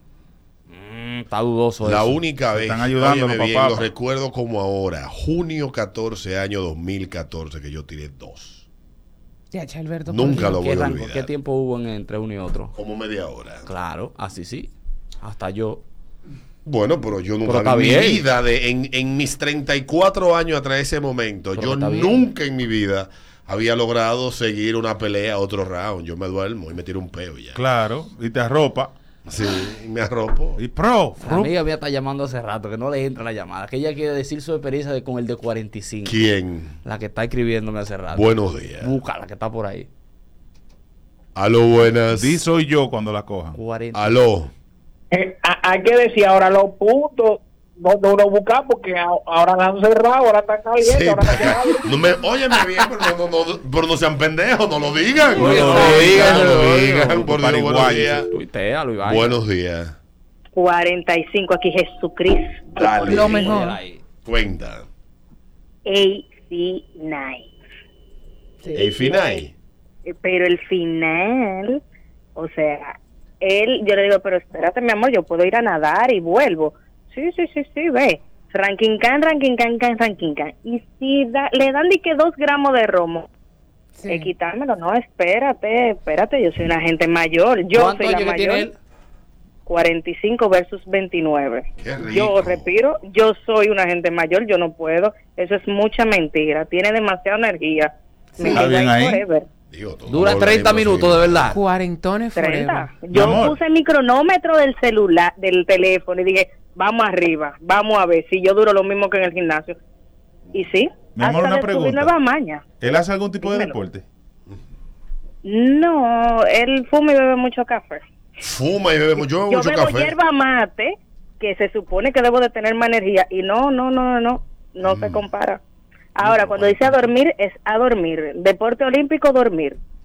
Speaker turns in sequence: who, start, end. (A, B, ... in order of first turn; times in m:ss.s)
0:00.7-0:02.2 A
0:01.8-0:08.6 B
0:02.5-0:03.9 C
0:09.5-0:10.7 D
0:10.1-0:11.3 B
0:10.5-0:12.7 A
0:12.8-0:13.7 B
0:13.6-0:14.7 A
0:15.2-0:15.8 A
0:16.6-0:27.6 B
0:17.4-0:18.3 A
0:21.5-0:22.2 A
0:27.5-0:28.9 C
0:29.2-0:30.6 B
0:30.6-0:31.5 C
0:31.2-0:36.2 A
0:36.0-0:36.8 B
0:36.8-0:39.9 A
0:38.1-0:38.9 B
0:41.4-0:42.4 B
0:42.1-0:43.6 C
0:43.5-0:44.2 A
0:43.9-0:44.5 B
0:45.3-0:51.7 E
0:50.8-0:58.3 B
0:55.4-0:57.4 A
0:55.4-0:58.3 C
0:55.7-0:56.1 D
0:58.3-0:59.4 A
0:59.0-0:59.9 B
1:00.5-1:03.4 F
1:02.8-1:03.6 B
1:03.1-1:03.8 D
1:03.4-1:04.0 A
1:04.2-1:04.9 B
1:05.9-1:07.5 F
1:08.7-1:09.5 B
1:08.8-1:09.4 F
1:10.1-1:11.8 F
1:12.4-1:23.3 F
1:24.0-1:24.3 D
1:24.1-1:28.7 F
1:27.7-1:28.8 A
1:29.6-1:39.5 F
1:31.8-1:32.7 B
1:38.4-1:39.2 C
1:39.7-1:41.6 B
1:40.1-1:41.6 A
1:41.5-1:43.0 D
1:42.3-1:49.8 F
1:43.1-1:43.6 C
1:50.5-1:53.8 F
1:51.2-1:52.2 C
1:52.8-1:54.0 C
1:55.4-1:58.0 F
1:58.4-2:00.2 B
1:59.4-2:05.6 F
2:04.8-2:05.3 B
2:06.2-2:09.8 F
2:06.2-2:07.0 B